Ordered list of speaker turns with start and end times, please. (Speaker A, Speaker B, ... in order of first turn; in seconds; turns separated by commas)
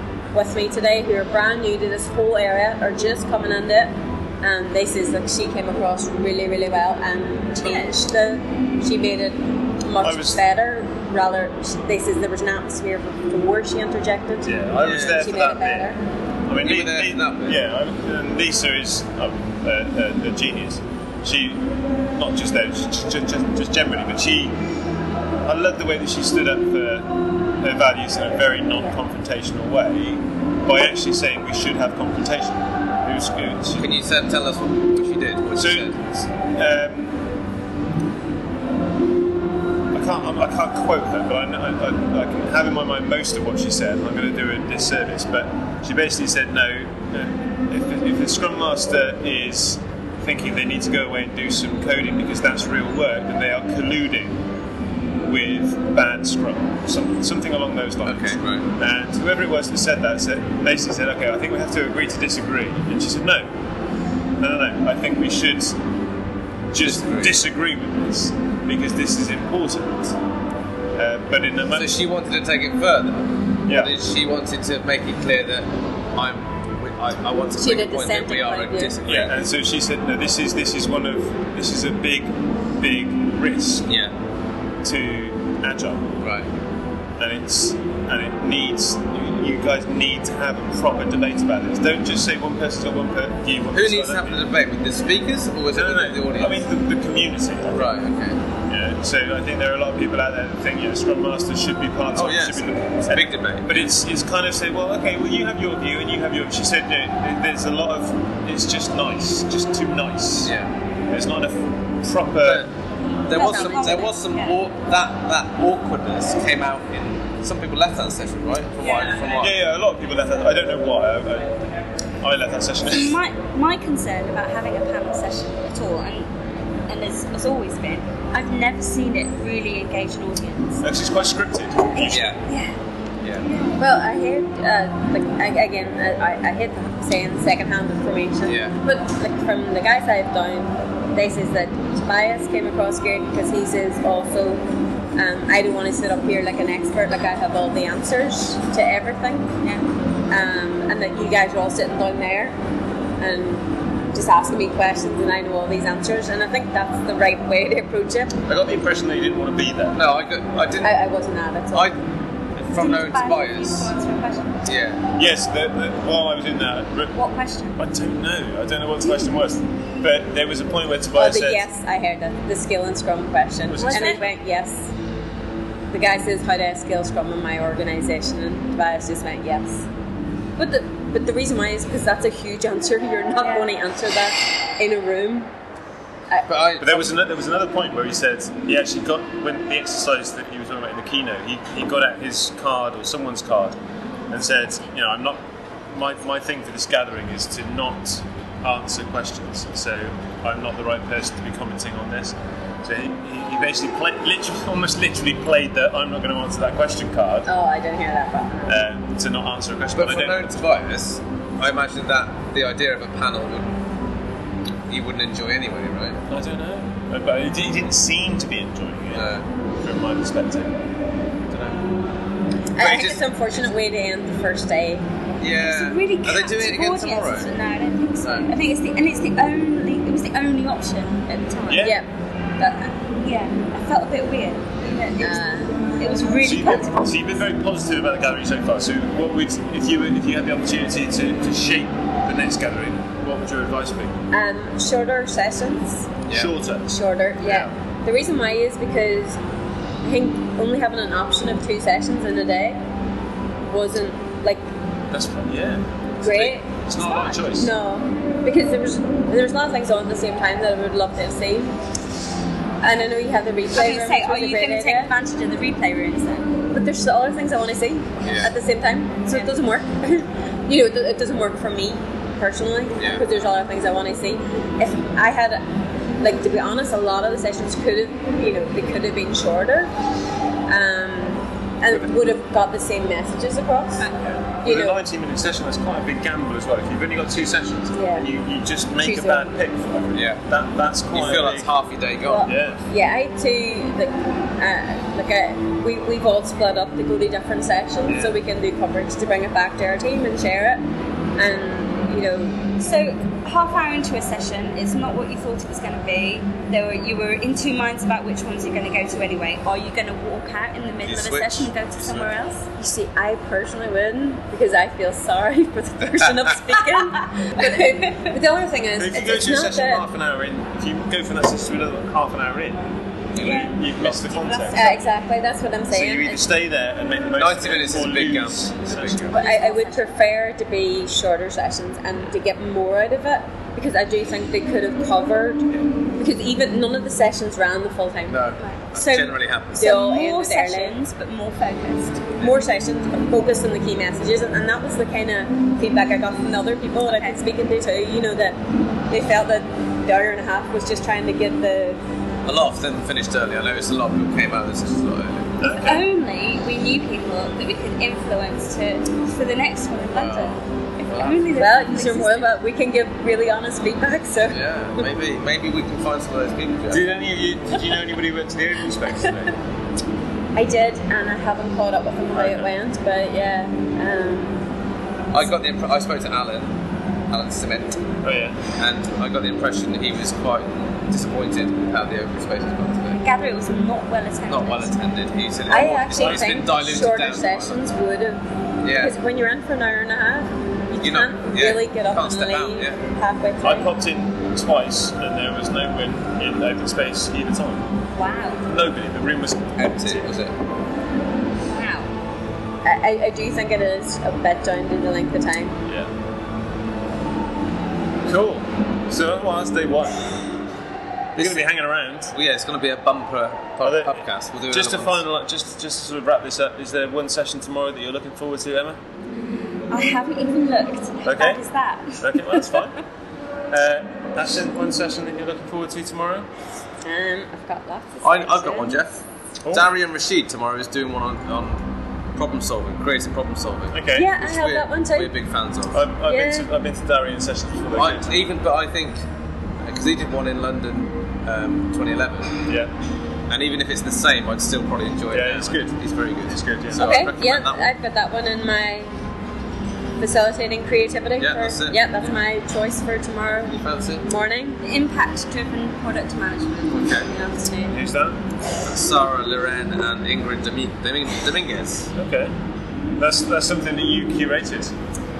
Speaker A: 0.3-14.5, Speaker B: 7.6-7.9, Speaker C: 10.0-10.4, Speaker C: 14.4-15.9, Speaker D: 14.8-15.6, Speaker A: 15.2-16.0, Speaker C: 16.5-24.6, Speaker D: 16.6-17.6, Speaker C: 25.4-33.8, Speaker D: 33.8-36.0, Speaker C: 35.5-37.2, Speaker C: 39.9-54.4, Speaker C: 55.2-63.5, Speaker D: 58.0-58.7, Speaker C: 64.4-65.8, Speaker C: 66.7-70.2, Speaker D: 66.8-67.3, Speaker C: 70.9-71.9, Speaker D: 71.7-79.3, Speaker C: 73.7-73.9, Speaker A: 77.6-78.9, Speaker C: 79.0-83.9, Speaker D: 83.8-84.1, Speaker C: 84.8-86.0, Speaker D: 86.2-86.5, Speaker C: 87.2-94.4, Speaker D: 93.7-96.6, Speaker C: 95.7-97.8, Speaker D: 97.7-98.4, Speaker C: 98.7-110.5, Speaker D: 102.1-103.9, Speaker D: 110.4-110.7, Speaker C: 111.1-112.7, Speaker D: 112.4-112.7, Speaker D: 113.2-119.5, Speaker B: 113.3-114.6, Speaker A: 113.3-114.0, Speaker B: 118.8-119.4, Speaker C: 119.4-121.7, Speaker C: 122.2-123.2, Speaker B: 122.8-126.3, Speaker B: 126.9-130.8, Speaker C: 130.8-132.2, Speaker B: 131.9-132.8, Speaker D: 132.1-132.4, Speaker B: 133.4-133.8, Speaker A: 133.8-144.6, Speaker D: 138.4-138.7, Speaker A: 145.2-149.5, Speaker A: 150.3-152.6, Speaker A: 153.2-158.3, Speaker C: 158.4-160.0, Speaker D: 159.9-161.0, Speaker A: 160.8-161.9, Speaker D: 161.7-162.0, Speaker D: 162.6-163.9, Speaker B: 162.7-164.6, Speaker D: 164.7-165.0, Speaker C: 165.2-167.2, Speaker B: 167.1-167.8, Speaker C: 167.8-171.6, Speaker A: 171.1-174.9, Speaker C: 173.7-174.2, Speaker B: 173.8-174.2, Speaker A: 175.9-179.8, Speaker A: 180.6-185.5, Speaker B: 183.4-183.7, Speaker D: 186.5-187.1, Speaker C: 186.8-193.8, Speaker C: 194.3-207.5, Speaker A: 207.4-208.7, Speaker C: 208.7-210.5, Speaker D: 209.9-213.7, Speaker D: 214.9-216.2, Speaker C: 216.3-220.7, Speaker D: 219.1-219.4, Speaker D: 221.5-221.8, Speaker A: 222.8-225.0, Speaker C: 222.8-223.2, Speaker D: 225.4-227.5, Speaker B: 225.6-232.0, Speaker D: 228.2-228.5, Speaker C: 231.7-232.0, Speaker B: 232.6-235.5, Speaker A: 235.2-235.7, Speaker B: 236.0-237.0, Speaker C: 236.4-244.2, Speaker A: 244.3-246.1, Speaker C: 246.3-246.9, Speaker A: 246.9-249.4, Speaker C: 247.4-247.7, Speaker A: 250.0-252.8, Speaker A: 253.6-254.7, Speaker C: 255.1-257.7, Speaker A: 256.2-261.7, Speaker B: 257.0-257.4, Speaker A: 262.8-265.1, Speaker B: 263.7-266.5, Speaker A: 266.7-275.6, Speaker D: 268.2-268.5, Speaker D: 273.0-273.3, Speaker A: 276.2-279.9, Speaker A: 280.7-284.1, Speaker C: 284.3-291.7, Speaker A: 284.6-285.0, Speaker A: 287.9-288.3, Speaker A: 289.0-289.5, Speaker D: 290.1-290.4, Speaker D: 291.1-292.5, Speaker A: 292.3-300.8, Speaker C: 292.4-292.8, Speaker C: 298.1-298.4, Speaker A: 301.4-302.7, Speaker B: 302.8-312.7, Speaker D: 311.0-312.3, Speaker A: 312.8-320.0, Speaker B: 317.7-318.3, Speaker C: 319.0-322.8, Speaker D: 323.3-324.7, Speaker B: 323.4-325.1, Speaker C: 323.4-324.8, Speaker A: 324.7-326.5, Speaker C: 325.9-329.3, Speaker D: 327.4-329.4, Speaker B: 329.3-330.1, Speaker A: 329.3-338.4, Speaker D: 338.3-339.9, Speaker B: 338.6-342.4, Speaker A: 339.7-340.9, Speaker A: 342.4-348.6, Speaker B: 347.1-347.4, Speaker A: 349.1-352.0, Speaker D: 352.4-355.6, Speaker C: 355.6-356.0, Speaker B: 355.6-362.5, Speaker D: 360.1-361.5, Speaker A: 361.6-365.1, Speaker D: 364.5-367.1, Speaker C: 366.9-369.6, Speaker A: 370.5-374.6, Speaker C: 372.3-372.7, Speaker D: 375.3-376.8, Speaker D: 377.3-378.0, Speaker C: 378.2-378.6, Speaker D: 378.8-383.2, Speaker B: 383.1-384.9, Speaker D: 384.5-387.8, Speaker A: 385.7-393.9, Speaker D: 388.8-389.2, Speaker D: 391.0-393.0, Speaker C: 393.6-397.8, Speaker B: 398.1-398.6, Speaker C: 398.6-400.3, Speaker D: 399.8-400.5, Speaker B: 401.7-402.1, Speaker A: 402.8-405.8, Speaker C: 405.8-406.1, Speaker C: 408.2-410.5, Speaker C: 411.4-412.3, Speaker D: 411.4-411.6, Speaker D: 412.3-415.2, Speaker C: 413.8-419.0, Speaker B: 419.9-422.6, Speaker C: 421.2-421.6, Speaker C: 422.2-423.0, Speaker C: 423.7-426.5, Speaker A: 427.0-429.0, Speaker D: 428.2-431.8, Speaker C: 429.6-429.9, Speaker D: 432.3-436.0, Speaker C: 433.9-434.3, Speaker A: 434.1-435.3, Speaker C: 435.9-438.4, Speaker A: 436.2-436.7, Speaker D: 437.9-439.2, Speaker D: 439.8-442.6, Speaker D: 443.5-447.9, Speaker C: 445.3-445.9, Speaker C: 446.4-447.3, Speaker A: 446.9-449.1, Speaker A: 450.2-454.8, Speaker D: 451.4-452.1, Speaker D: 453.7-454.2, Speaker B: 454.8-457.9, Speaker D: 456.9-457.3, Speaker C: 457.9-458.4, Speaker D: 458.8-462.1, Speaker C: 462.1-462.5, Speaker C: 463.2-464.9